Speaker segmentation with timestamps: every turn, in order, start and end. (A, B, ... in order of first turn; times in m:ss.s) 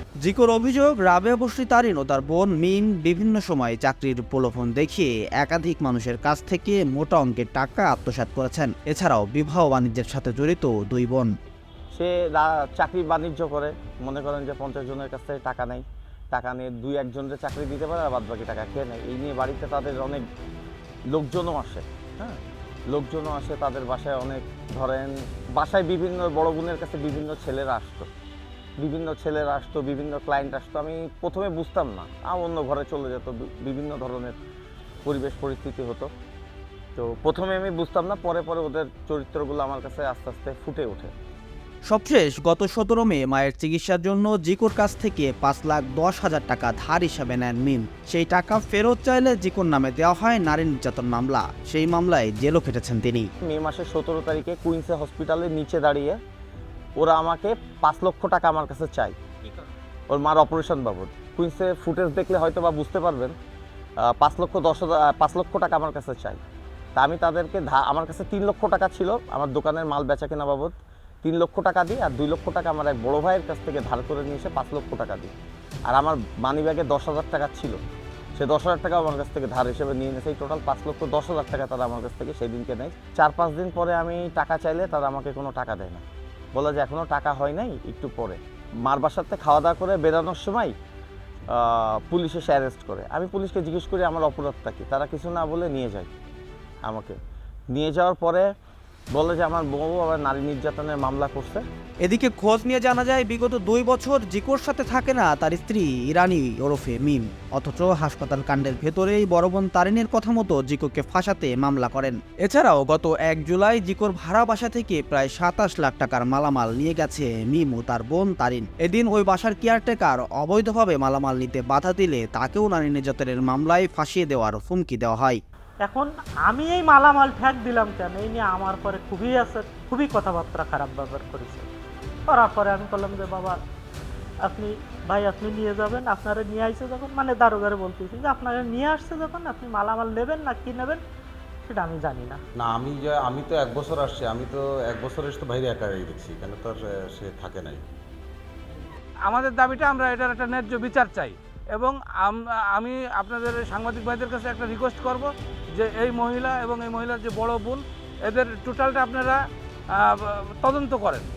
0:00.2-0:11.3 A
0:11.9-0:20.2 B
0:21.1-0:22.4 B
0:22.9-0:28.1 B
0:28.8-0:34.4 B
0:35.0-0:36.1 B
0:37.0-0:41.1 B
0:41.9-0:53.3 A
0:53.4-0:56.2 B
0:57.0-0:59.2 B
1:00.1-1:03.3 B
1:04.0-1:06.4 B
1:07.0-1:15.3 B
1:15.9-1:17.8 B
1:18.3-1:30.7 B
1:31.5-1:36.1 B
1:36.8-1:37.2 B
1:37.7-1:38.5 B
1:39.1-1:41.6 B
1:42.0-2:05.4 A
2:05.8-2:11.6 C
2:12.3-2:13.6 C
2:14.5-2:21.0 C
2:21.7-2:22.4 C
2:22.6-2:27.8 D
2:29.3-2:39.4 E
2:40.0-2:41.3 E